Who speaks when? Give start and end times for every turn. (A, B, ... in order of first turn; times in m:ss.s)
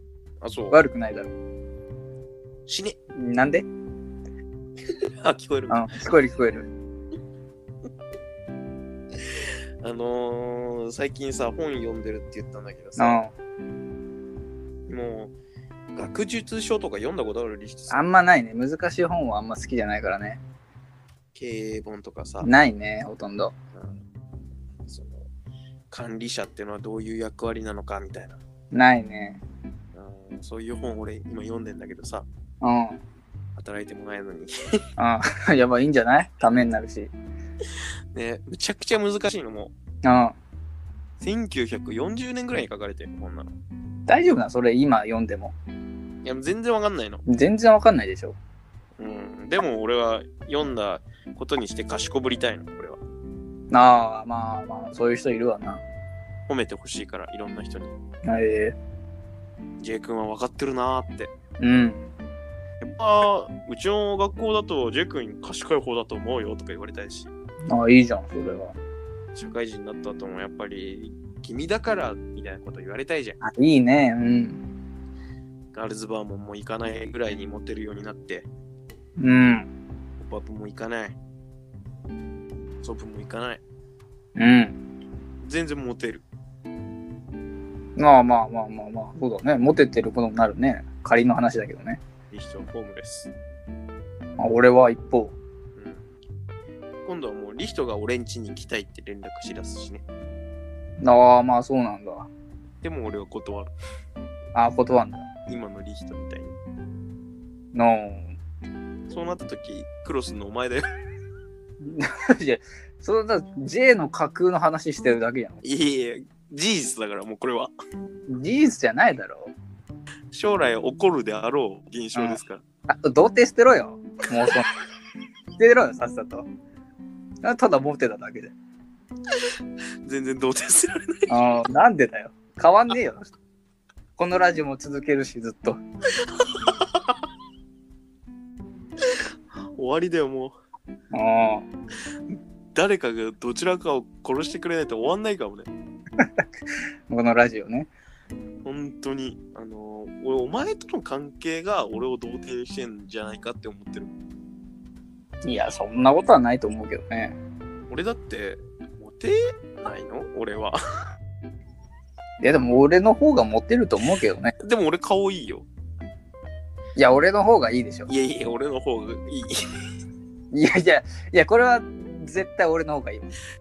0:00.4-0:00.8 A
0:00.7-0:01.3 B
0:02.7-0:03.0 A
0:03.1-0:03.7 B
0:04.9-0:06.0 A
0:05.7-0:06.7 B
0:09.2-0:13.2 A
0:13.0-0:13.3 B
0:14.9-0:15.3 A
0:15.9-0:18.0 A
0:17.9-0:20.4 B
0:21.3-0:22.5 A
0:22.4-0:23.5 B
0:23.7-0:24.0 A
0:24.9-0:25.3 A
0:25.9-0:28.4 A
0:28.7-0:29.4 B
0:29.9-0:32.3 A
0:32.6-0:33.0 B
0:33.6-0:34.8 A
0:35.0-0:37.1 B
0:38.1-0:39.7 A
0:40.0-0:40.4 B
0:41.2-0:43.5 A
0:44.1-0:45.5 B
0:46.2-0:47.2 A
0:47.2-0:48.4 B
0:49.0-0:53.0 A
0:53.7-0:55.8 B
0:56.5-0:57.9 A
0:58.2-0:58.8 B
0:59.8-1:01.3 A
1:01.6-1:02.0 B
1:02.8-1:07.3 A
1:07.7-1:08.8 B
1:09.3-1:13.4 A
1:13.4-1:14.6 B
1:15.7-1:18.5 A
1:19.2-1:19.7 B
1:20.2-1:21.2 A
1:22.8-1:23.6 A
1:24.4-1:24.8 B
1:25.4-1:26.2 A
1:28.0-1:32.0 B
1:32.3-1:33.3 A
1:34.4-1:35.4 B
1:35.8-1:36.1 A
1:37.0-1:40.0 A
1:41.0-1:42.3 B
1:42.8-1:43.7 A
1:44.5-1:45.3 B
1:45.5-1:46.5 A
1:47.7-1:48.3 B
1:49.1-1:50.8 A
1:51.8-1:55.6 B
1:55.6-1:57.7 A
1:58.3-1:59.5 B
2:00.3-2:02.6 A
2:02.1-2:04.7 B
2:05.6-2:06.5 B
2:07.4-2:08.5 B
2:10.0-2:11.6 A
2:11.3-2:13.3 B
2:14.2-2:15.8 B
2:16.2-2:17.2 A
2:19.8-2:20.5 A
2:21.1-2:21.7 B
2:22.3-2:25.7 A
2:26.2-2:26.4 B
2:27.1-2:27.9 B
2:28.6-2:34.1 A
2:35.4-2:37.4 B
2:37.9-2:40.8 A
2:42.4-2:44.5 B
2:44.6-2:45.7 A
2:47.0-2:48.1 B
2:48.1-2:49.6 A
2:50.5-2:53.3 B